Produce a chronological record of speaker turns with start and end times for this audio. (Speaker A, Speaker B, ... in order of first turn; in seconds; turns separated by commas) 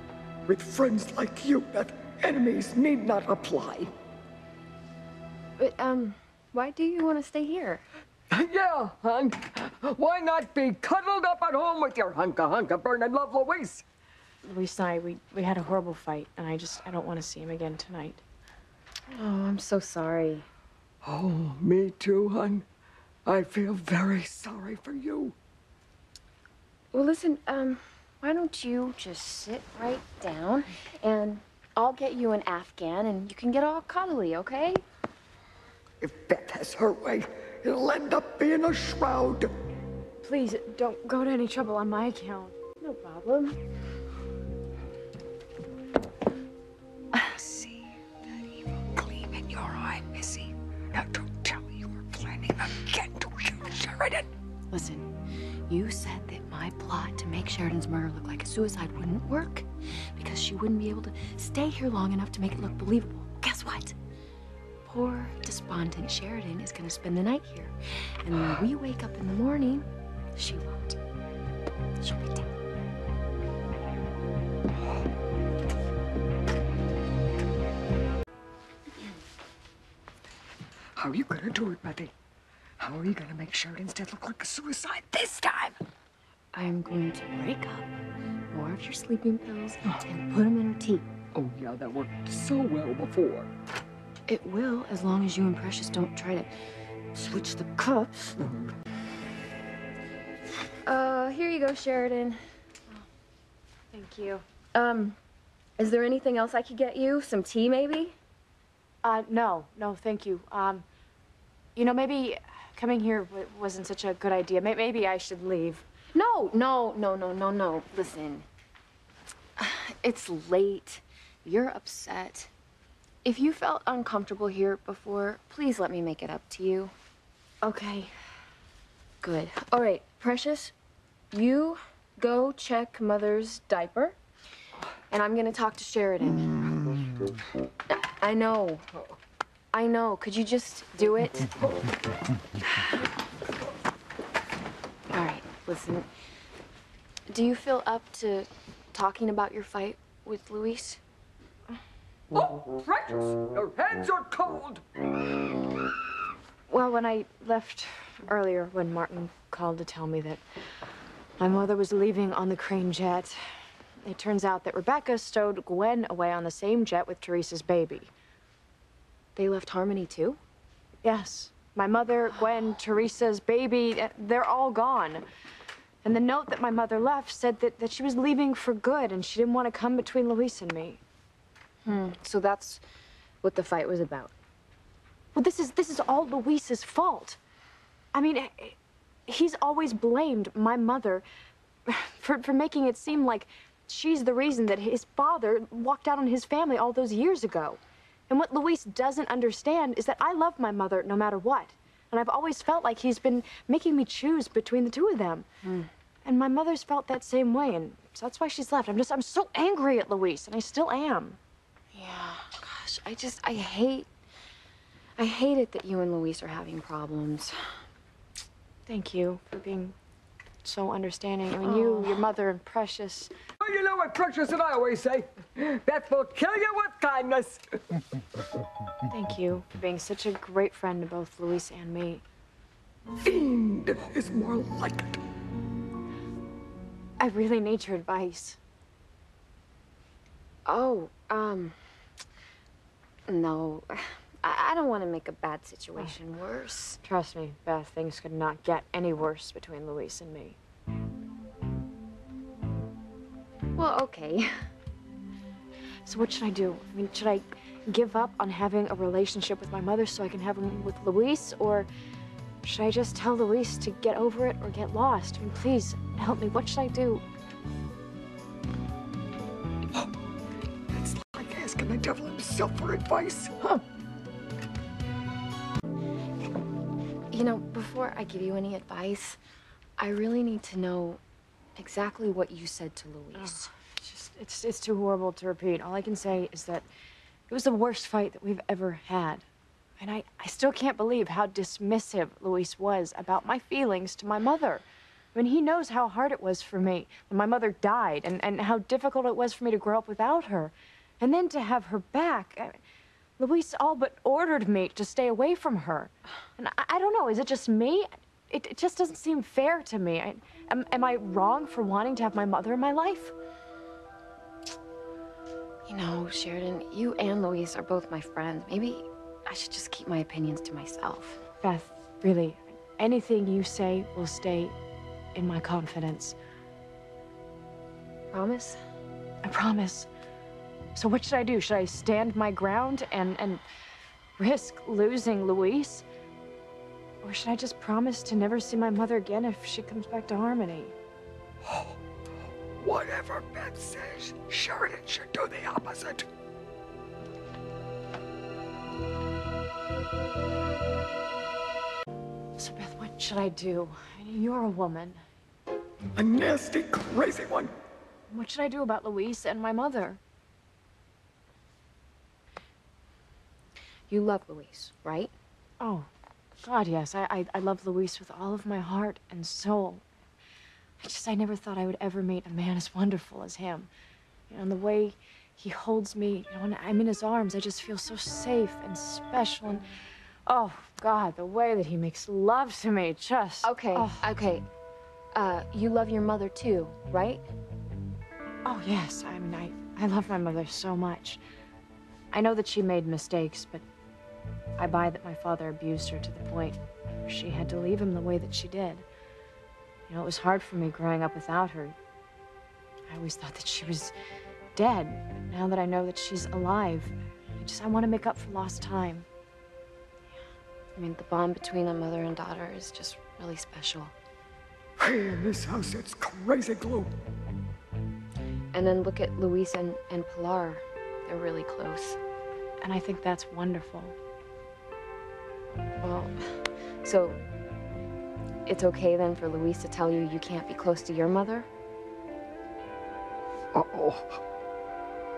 Speaker A: 0.5-3.9, Speaker B: 5.6-7.8, Speaker A: 8.3-13.8, Speaker C: 14.4-18.2, Speaker B: 19.1-20.5, Speaker A: 21.0-22.7, Speaker A: 23.2-25.3, Speaker B: 26.9-34.8, Speaker A: 36.0-39.5, Speaker C: 40.2-42.7, Speaker B: 42.8-43.6, Speaker B: 47.3-47.5, Speaker A: 48.7-54.3, Speaker B: 54.7-55.1, Speaker B: 55.7-64.0, Speaker B: 64.9-71.0, Speaker B: 72.0-72.5, Speaker A: 81.0-82.1, Speaker A: 82.8-85.8, Speaker B: 86.5-87.9, Speaker B: 88.5-91.1, Speaker A: 91.3-93.5, Speaker B: 94.3-96.5, Speaker B: 97.1-98.4, Speaker A: 98.4-98.8, Speaker B: 100.9-102.4, Speaker C: 103.9-104.4, Speaker B: 104.7-105.2, Speaker B: 105.8-108.2, Speaker C: 109.0-110.8, Speaker C: 111.8-115.9, Speaker B: 116.1-118.5, Speaker B: 119.6-122.5, Speaker B: 123.2-126.9, Speaker C: 127.6-128.1, Speaker B: 129.2-130.7, Speaker B: 131.3-134.2, Speaker B: 135.1-136.9, Speaker B: 137.9-138.9, Speaker B: 139.7-141.5, Speaker B: 145.1-146.1, Speaker B: 147.3-151.0, Speaker A: 152.3-155.0, Speaker C: 156.7-160.4, Speaker C: 161.4-163.4, Speaker C: 164.0-168.1, Speaker B: 169.3-170.4, Speaker C: 171.0-175.2, Speaker C: 176.0-181.0, Speaker B: 181.8-182.8, Speaker B: 183.4-184.3, Speaker C: 185.3-187.4, Speaker C: 188.1-191.2, Speaker C: 191.8-205.5, Speaker B: 205.6-205.9, Speaker C: 206.2-211.4, Speaker B: 211.9-214.1, Speaker B: 215.2-217.8, Speaker C: 218.9-219.9, Speaker C: 220.6-223.3, Speaker B: 221.6-222.3, Speaker A: 223.6-228.0, Speaker C: 229.1-232.2, Speaker A: 233.2-235.2, Speaker C: 237.2-238.6, Speaker B: 240.7-241.8, Speaker B: 243.3-247.0, Speaker C: 247.0-250.6, Speaker B: 253.7-254.7, Speaker C: 256.0-261.9, Speaker C: 262.6-267.2, Speaker A: 270.9-273.8, Speaker B: 277.3-279.4, Speaker B: 280.0-281.2, Speaker B: 281.7-283.7, Speaker C: 283.4-286.8, Speaker C: 287.5-289.4, Speaker C: 290.0-294.8, Speaker C: 295.3-302.8, Speaker C: 303.4-313.3, Speaker B: 315.9-321.4, Speaker C: 321.6-324.7, Speaker C: 325.3-326.4, Speaker B: 328.3-328.8, Speaker C: 329.4-330.1, Speaker C: 330.9-333.6, Speaker C: 334.4-336.0, Speaker C: 337.2-340.9, Speaker A: 341.6-342.0, Speaker A: 342.8-346.3, Speaker C: 352.6-355.2, Speaker A: 356.1-357.7, Speaker C: 358.3-360.2, Speaker B: 364.1-365.3, Speaker C: 365.8-366.1, Speaker C: 366.6-370.0, Speaker C: 371.0-373.9, Speaker C: 374.5-379.8, Speaker C: 380.5-384.3, Speaker B: 383.6-384.7, Speaker B: 385.3-387.4, Speaker C: 388.6-391.4, Speaker C: 392.3-393.8, Speaker C: 394.8-399.1, Speaker C: 400.1-401.9, Speaker C: 403.1-404.1, Speaker C: 404.7-409.2, Speaker B: 410.9-414.1, Speaker A: 415.0-417.1, Speaker B: 418.7-422.2, Speaker C: 422.8-424.1, Speaker B: 426.0-427.4, Speaker B: 428.7-431.7, Speaker A: 433.7-434.4